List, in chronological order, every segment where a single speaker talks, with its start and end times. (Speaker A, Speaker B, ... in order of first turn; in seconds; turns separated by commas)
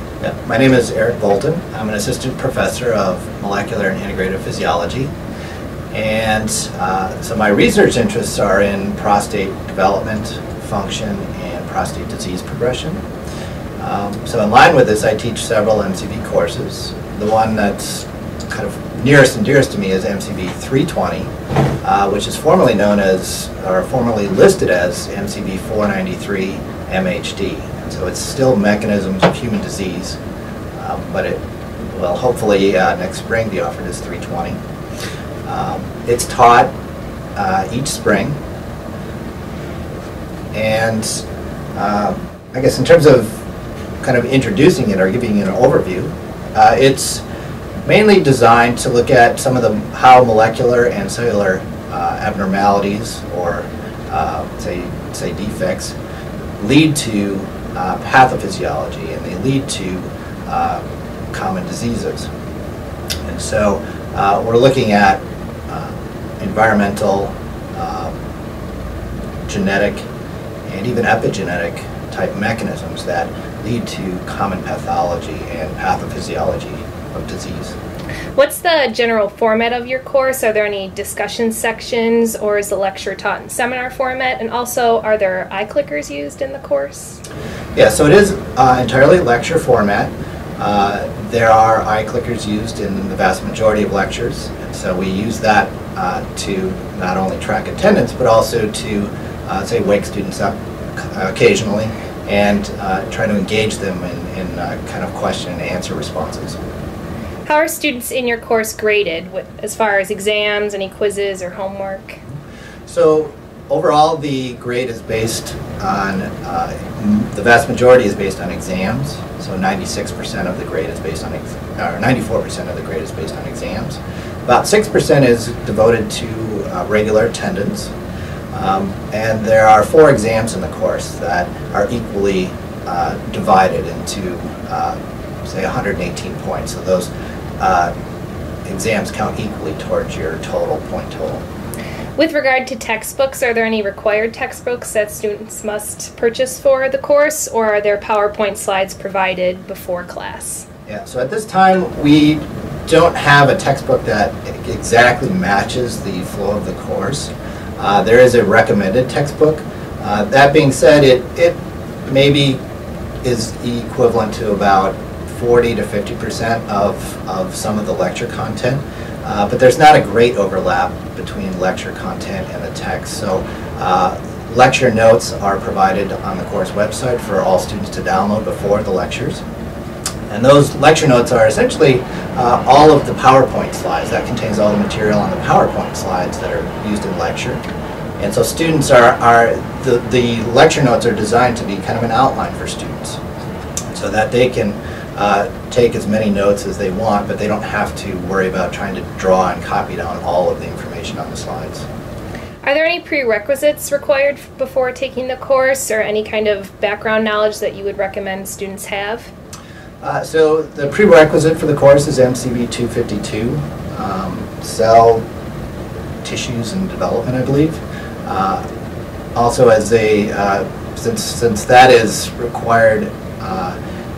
Speaker A: 0.2-5.1, Speaker A: 5.9-13.0, Speaker A: 13.8-21.3, Speaker A: 21.8-30.2, Speaker A: 30.8-34.6, Speaker A: 35.4-36.7, Speaker A: 37.4-38.4, Speaker A: 40.5-41.2, Speaker A: 41.7-43.4, Speaker A: 44.0-47.2, Speaker A: 47.8-56.0, Speaker A: 56.6-62.3, Speaker A: 63.2-68.1, Speaker A: 69.5-70.0, Speaker A: 70.7-77.8, Speaker B: 78.3-87.2, Speaker A: 87.7-106.6, Speaker B: 107.5-112.2, Speaker A: 112.9-127.9, Speaker A: 128.5-137.1, Speaker A: 137.6-137.9, Speaker A: 138.7-141.4, Speaker B: 142.2-150.7, Speaker A: 150.9-162.6, Speaker A: 163.2-179.4, Speaker A: 180.3-187.6, Speaker A: 188.2-193.2, Speaker A: 193.9-201.8, Speaker B: 202.6-209.3, Speaker A: 210.0-215.2, Speaker A: 216.2-218.6, Speaker A: 219.3-223.8